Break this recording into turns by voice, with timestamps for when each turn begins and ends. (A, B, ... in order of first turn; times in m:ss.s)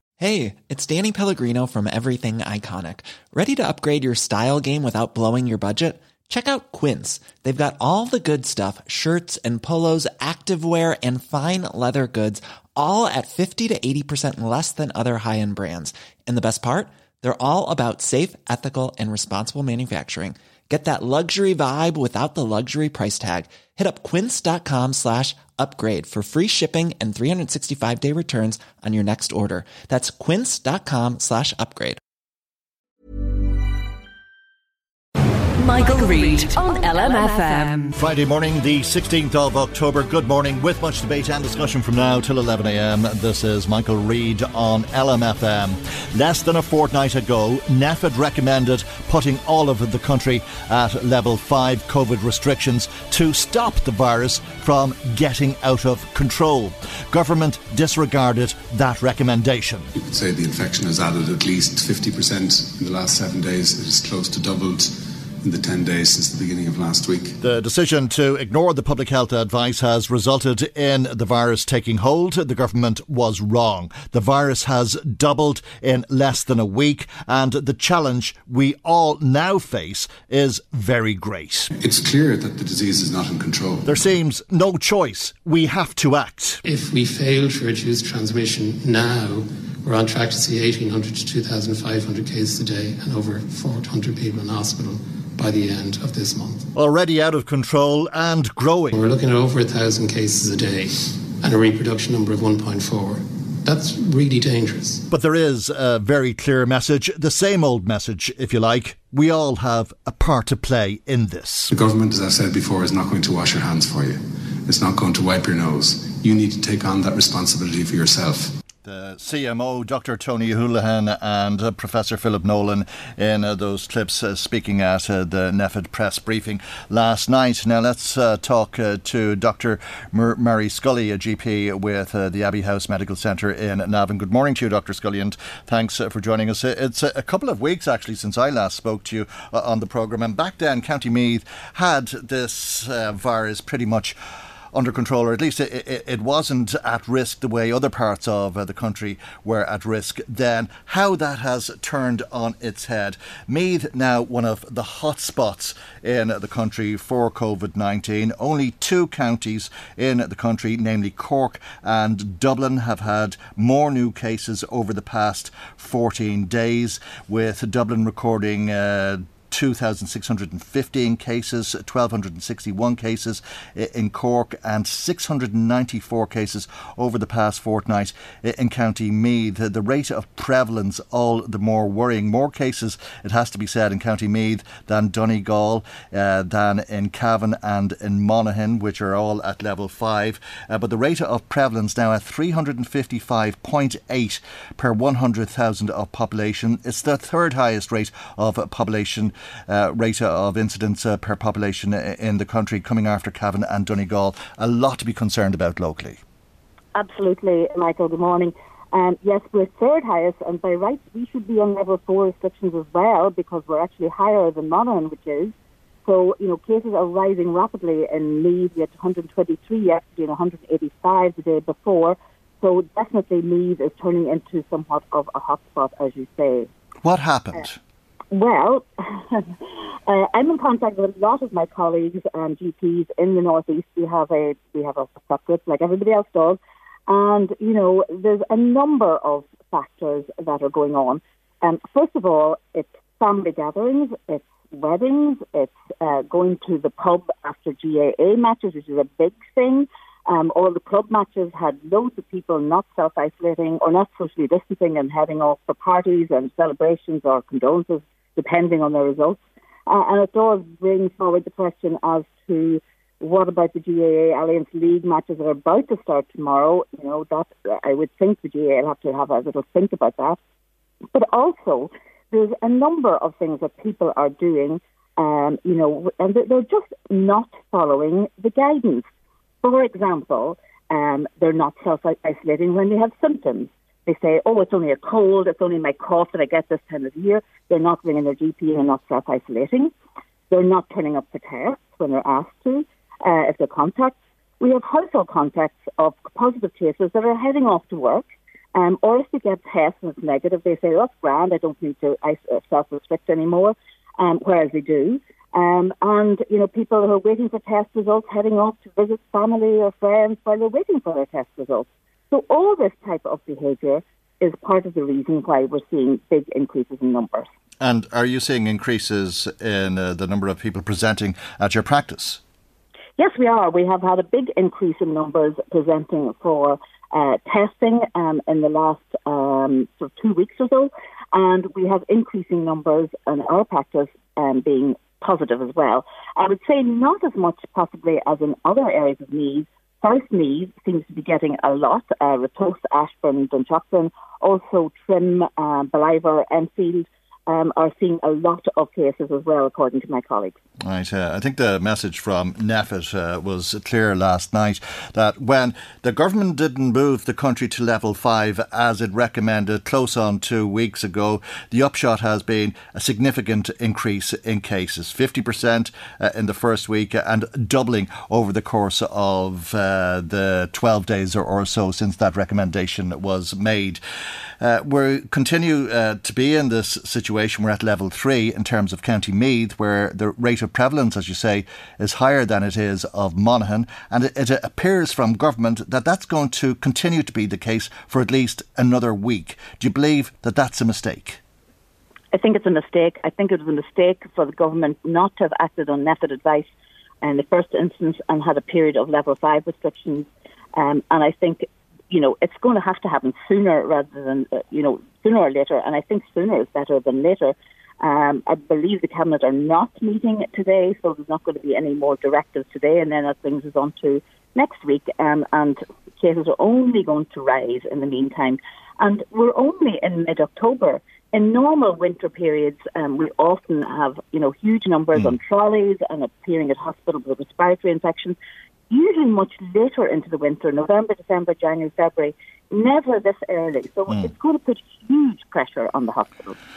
0:00.2-0:32.0 A
0:35.8-0:37.9 B
0:37.9-0:59.9 C
1:00.0-1:07.4 D
1:07.4-1:21.7 C
1:21.8-1:23.9 D
1:23.9-1:26.6 C
1:26.6-1:36.7 E
1:36.8-1:39.0 C
1:38.9-1:45.1 E
1:45.1-1:51.7 C
1:51.7-1:58.6 D
1:58.8-2:24.2 C
2:24.7-3:26.2 C
3:26.9-3:35.5 F
3:36.0-3:46.7 F
3:47.0-3:47.8 C
3:48.3-4:30.4 F
4:31.1-4:39.1 F
4:39.6-4:49.9 F
4:50.5-5:17.5 F
5:17.8-5:22.4 C
5:23.2-5:50.6 F
5:50.8-6:14.0 C
6:14.6-6:31.4 C
6:32.3-6:36.7 F
6:37.2-7:08.4 F
7:08.9-7:16.6 F